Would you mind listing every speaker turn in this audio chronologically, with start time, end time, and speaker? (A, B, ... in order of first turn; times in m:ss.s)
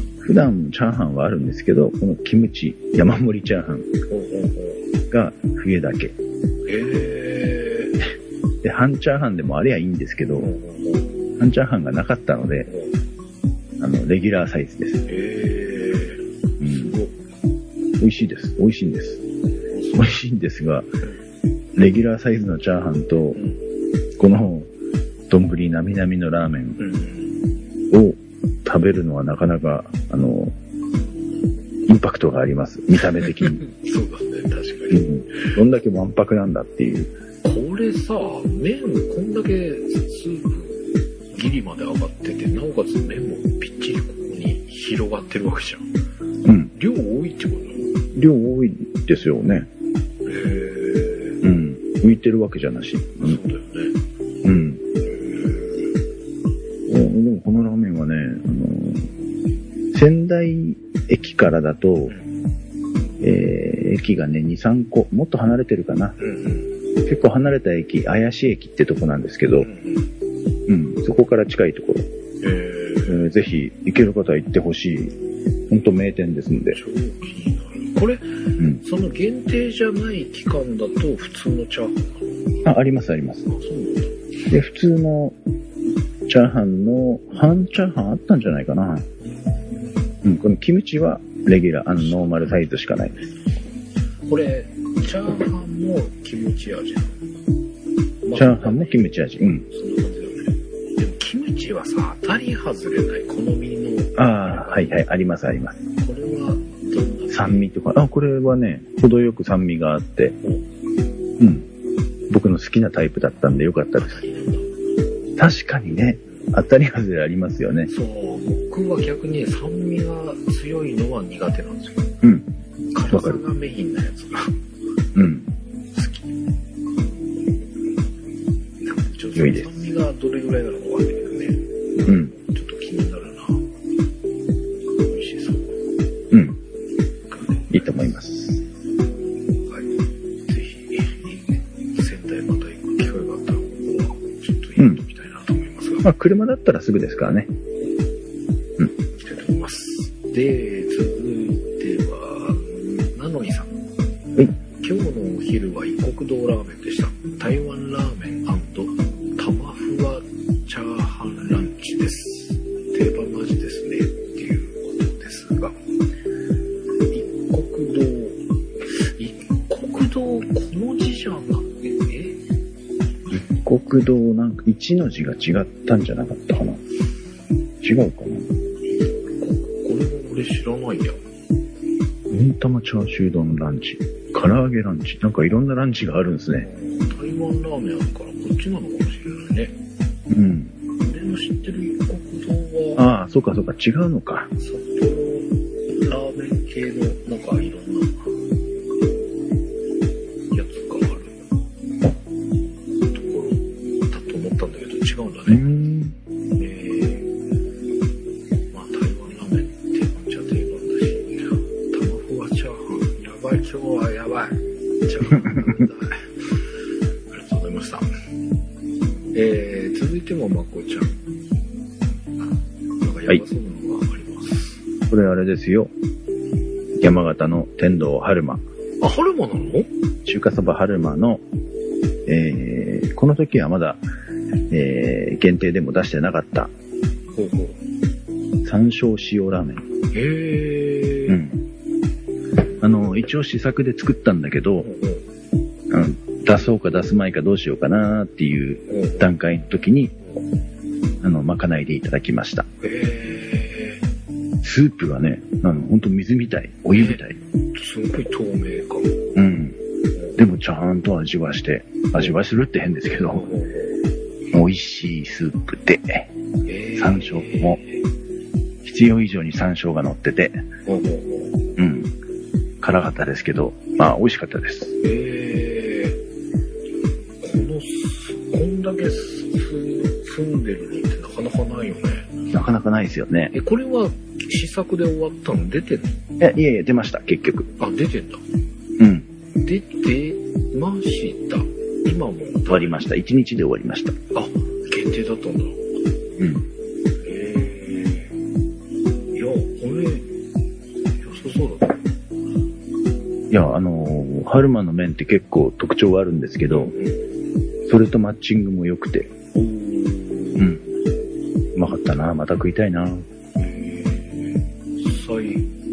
0:00.2-0:03.9 A
0:04.1-0:04.8 B
0:05.1-0:06.2 A
0:06.6-0:08.0 B
0:08.6-0:10.5 A
0:10.4-0:11.1 B
0:11.4-0:12.7 A
0:13.8-0:15.0 A
0:15.1-0:17.1 B
0:16.6-0:16.9 A
0:18.0-0:19.2 A
0:19.7-0:20.1 B
0:19.9-0:20.9 A
0:21.8-0:23.4 A
0:24.2-0:24.7 A
0:25.3-0:26.8 A
0:26.8-0:27.4 B
0:27.9-0:30.6 A
0:31.9-0:33.6 A
0:33.1-0:35.6 B
0:34.9-0:37.1 A
0:37.4-0:45.9 B
0:46.4-0:46.7 A
0:46.7-0:47.9 B
0:48.1-0:49.7 A
0:50.2-0:51.4 B
0:51.4-0:53.4 A
0:53.2-0:54.0 B
0:54.4-0:54.8 A
0:55.0-0:55.9 B
0:56.9-0:59.1 A
0:59.9-1:02.2 A
1:03.2-1:06.2 A
1:06.2-1:06.7 B
1:07.0-1:09.7 A
1:09.6-1:10.1 B
1:10.7-1:12.1 A
1:12.4-1:13.3 B
1:13.1-1:15.2 A
1:15.7-1:16.8 A
1:16.7-1:22.6 B
1:22.6-1:23.4 A
1:23.5-1:24.2 B
1:24.5-1:25.4 A
1:26.3-1:29.1 A
1:29.2-1:30.0 B
1:30.2-1:33.3 A
1:32.0-1:33.3 B
1:34.3-1:37.2 B
1:38.2-1:39.0 B
1:38.3-1:39.7 A
1:39.7-1:45.0 B
1:44.2-1:45.8 A
1:46.0-1:47.7 B
1:47.3-1:50.4 A
1:51.4-1:51.7 A
1:52.3-1:54.2 A
1:54.0-1:54.7 B
1:55.4-1:57.9 A
1:57.9-2:02.1 B
2:02.9-2:04.6 B
2:03.1-2:03.4 A
2:05.1-2:05.5 A
2:05.9-2:06.3 B
2:08.8-2:13.6 B
2:09.3-2:09.7 A
2:12.0-2:12.3 A
2:15.0-2:15.8 B
2:16.3-2:16.6 A
2:17.3-2:18.0 B
2:17.7-2:18.6 A
2:19.6-2:26.1 B
2:26.0-2:27.5 A
2:29.2-2:33.8 B
2:34.8-2:45.8 B
2:47.1-2:52.4 B
2:53.3-2:56.8 A
2:57.8-2:58.5 A
2:58.9-3:01.2 B
3:02.3-3:06.7 A
3:06.6-3:09.8 B
3:10.3-3:10.7 A
3:11.0-3:13.1 B
3:13.0-3:14.5 A
3:14.6-3:18.3 B
3:20.5-3:21.4 B
3:23.1-3:25.7 B
3:25.5-3:26.1 A
3:26.6-3:27.3 B
3:28.7-3:36.6 B
3:35.4-3:35.7 A
3:37.3-3:38.1 B
3:39.3-3:41.2 B
3:42.4-3:44.8 B
3:45.1-3:45.9 A
3:47.0-3:48.6 A
3:49.0-3:49.9 B
3:50.2-3:51.4 A
3:52.2-3:54.0 A
3:54.7-3:56.7 A
3:57.4-3:57.8 B
3:58.6-3:59.8 A
4:00.1-4:01.4 B
4:01.3-4:01.6 A
4:02.8-4:04.9 A
4:04.8-4:05.2 B
4:05.9-4:10.2 A
4:08.9-4:09.3 B
4:11.2-4:12.7 A
4:12.8-4:14.0 B
4:14.6-4:17.4 A
4:17.7-4:19.2 B
4:19.3-4:19.8 A
4:20.4-4:23.5 A
4:23.3-4:24.0 B
4:24.5-4:26.3 A
4:26.6-4:28.0 B
4:27.0-4:27.8 A
4:28.8-4:30.6 A
4:30.8-4:31.6 B
4:31.8-4:32.1 A
4:32.8-4:35.0 A
4:35.0-4:36.2 B
4:37.4-4:42.3 B
4:42.5-4:43.5 A
4:43.5-4:46.2 B
4:46.4-4:47.7 A
4:47.8-4:48.4 B
4:49.0-4:49.3 A
4:49.6-4:53.0 B
4:52.7-4:54.2 A
4:54.3-4:55.8 B
4:56.4-4:56.6 A
4:57.2-4:58.3 B
4:59.3-5:00.3 B
5:01.2-5:02.0 B
5:03.5-5:06.9 A
5:06.7-5:07.2 B
5:07.8-5:09.3 A
5:09.5-5:10.9 B
5:11.7-5:13.2 A
5:13.6-5:15.7 B